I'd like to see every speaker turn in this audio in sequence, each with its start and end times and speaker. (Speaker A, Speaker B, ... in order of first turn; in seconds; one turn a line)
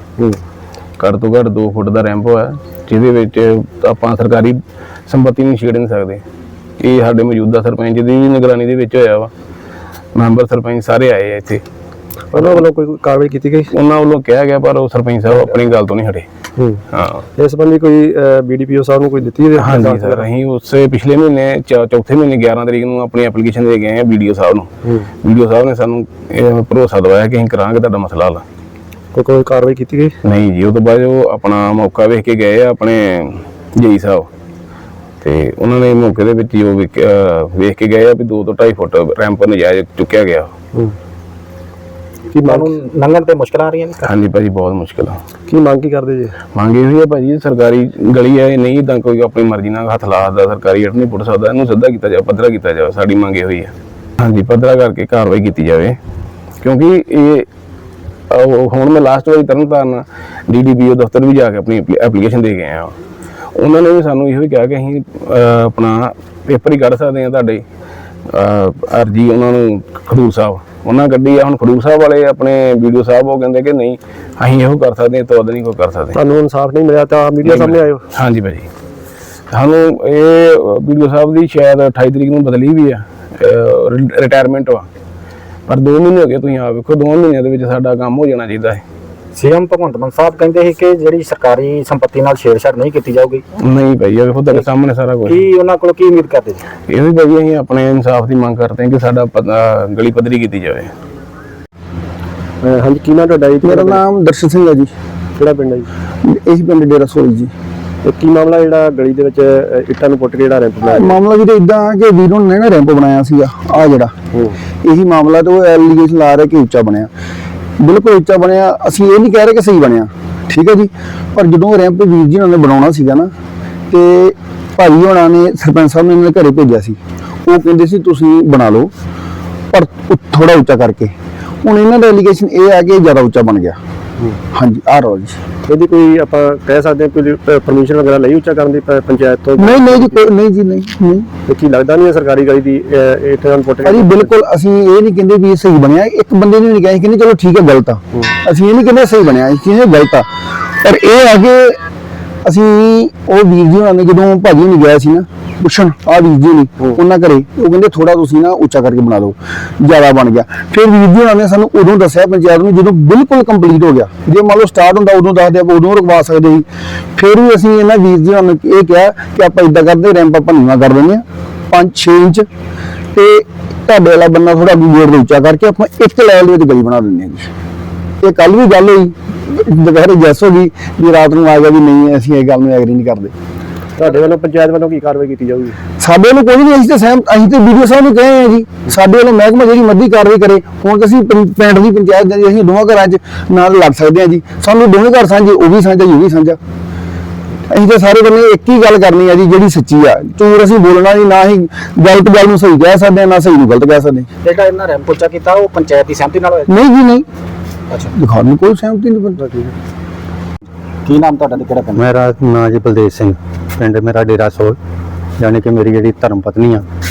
Speaker A: 1.0-4.6
Speaker A: 5.1-6.2
Speaker A: 6.8-9.3
Speaker A: 10.2-11.6
Speaker B: 12.3-13.7
Speaker A: 12.3-12.6
Speaker A: 13.7-16.3
Speaker B: 16.6-16.8
Speaker A: 16.9-17.2
Speaker B: 17.4-20.3
Speaker A: 19.6-24.7
Speaker A: 25.2-28.4
Speaker B: 29.1-30.1
Speaker A: 30.2-34.3
Speaker A: 35.2-40.5
Speaker B: 42.3-42.7
Speaker C: 42.5-44.1
Speaker A: 44.0-45.2
Speaker B: 45.5-46.4
Speaker A: 46.5-56.0
Speaker A: 56.6-57.5
Speaker A: 58.3-62.9
Speaker A: 63.6-67.6
Speaker A: 68.3-76.2
Speaker B: 76.1-78.0
Speaker A: 77.5-78.7
Speaker A: 79.5-84.9
Speaker A: 85.7-88.8
Speaker C: 89.3-93.4
Speaker A: 93.6-95.5
Speaker C: 95.3-96.6
Speaker A: 96.9-100.9
Speaker B: 102.6-104.0
Speaker D: 103.6-104.9
Speaker B: 105.4-105.9
Speaker D: 106.2-107.5
Speaker B: 108.0-111.2
Speaker D: 110.9-114.1
Speaker D: 114.8-117.1
Speaker D: 117.8-123.3
Speaker D: 123.9-128.9
Speaker D: 129.7-133.8
Speaker D: 134.5-135.4
Speaker B: 135.7-140.2
Speaker D: 139.6-141.3
Speaker B: 141.5-144.3
Speaker D: 143.8-151.8
Speaker D: 152.4-172.5
Speaker D: 173.1-177.5
Speaker D: 178.2-183.3
Speaker B: 184.0-185.8
Speaker D: 186.0-196.6
Speaker D: 197.7-204.3
Speaker C: 204.4-206.8
Speaker D: 206.7-207.3
Speaker D: 208.1-209.4
Speaker C: 211.1-212.1
Speaker E: 212.0-214.8
Speaker E: 215.4-216.9